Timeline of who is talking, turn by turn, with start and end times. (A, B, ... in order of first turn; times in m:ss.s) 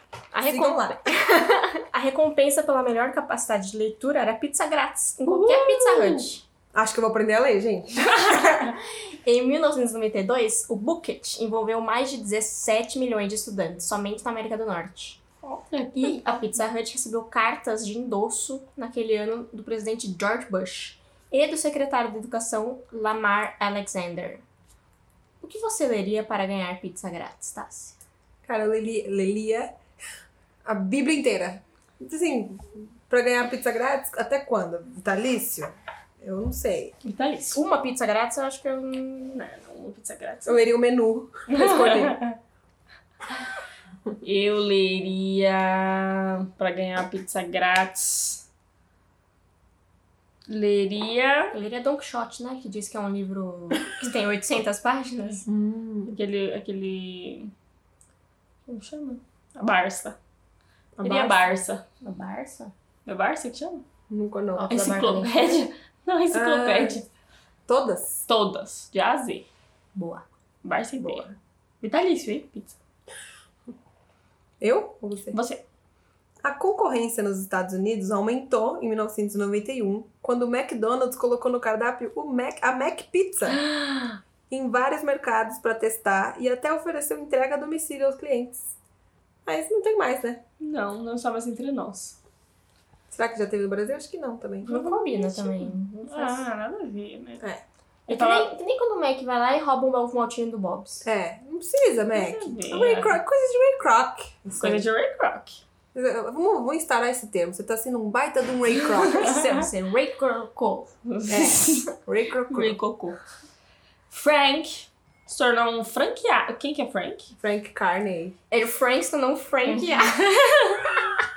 0:00.3-0:06.4 A
0:00.4-0:01.4 B
0:05.2-0:06.3 C
0:06.7-0:08.7 B
0:09.2-0:15.2 A
0:15.4-0:16.4 C
0:16.0-0:24.4 A
0:25.4-0:28.0 A
0:28.4-0:29.8 B
0:30.6-0:36.9 B
0:37.0-0:37.6 C
0:37.5-0:39.4 A
0:39.3-0:40.6 C
0:40.4-0:42.2 B
0:41.5-0:42.4 C
0:44.2-0:48.4 C
0:50.5-0:51.5 C
0:51.5-0:55.4 A
0:55.4-0:56.1 B
0:56.1-0:57.5 C
0:58.7-1:00.2 C
1:01.0-1:01.4 B
1:01.0-1:01.8 C
1:02.0-1:02.7 A
1:03.0-1:03.8 C
1:04.1-1:04.9 B
1:04.6-1:05.6 A
1:04.7-1:07.0 C
1:06.3-1:07.0 B
1:07.7-1:08.2 B
1:08.3-1:09.4 C
1:09.9-1:10.2 A
1:10.6-1:11.2 C
1:11.8-1:12.8 C
1:14.6-1:15.4 B
1:15.3-1:15.6 C
1:16.4-1:23.6 B
1:23.4-1:24.2 C
1:24.5-1:28.7 B
1:29.4-1:30.4 B
1:30.6-1:32.2 C
1:33.1-1:34.9 B
1:34.7-1:36.4 A
1:34.7-1:37.4 C
1:38.1-1:38.5 C
1:38.1-1:41.0 A
1:41.0-1:44.9 B
1:42.1-1:43.2 C
1:44.6-1:45.6 C
1:45.9-1:49.3 B
1:48.8-1:49.6 C
1:49.1-1:50.9 A
1:51.0-1:51.9 C
1:51.3-1:52.8 B
1:52.5-1:53.2 C
1:54.1-1:57.3 C
1:57.4-1:58.4 B
1:58.5-2:00.3 A
1:59.7-2:01.1 C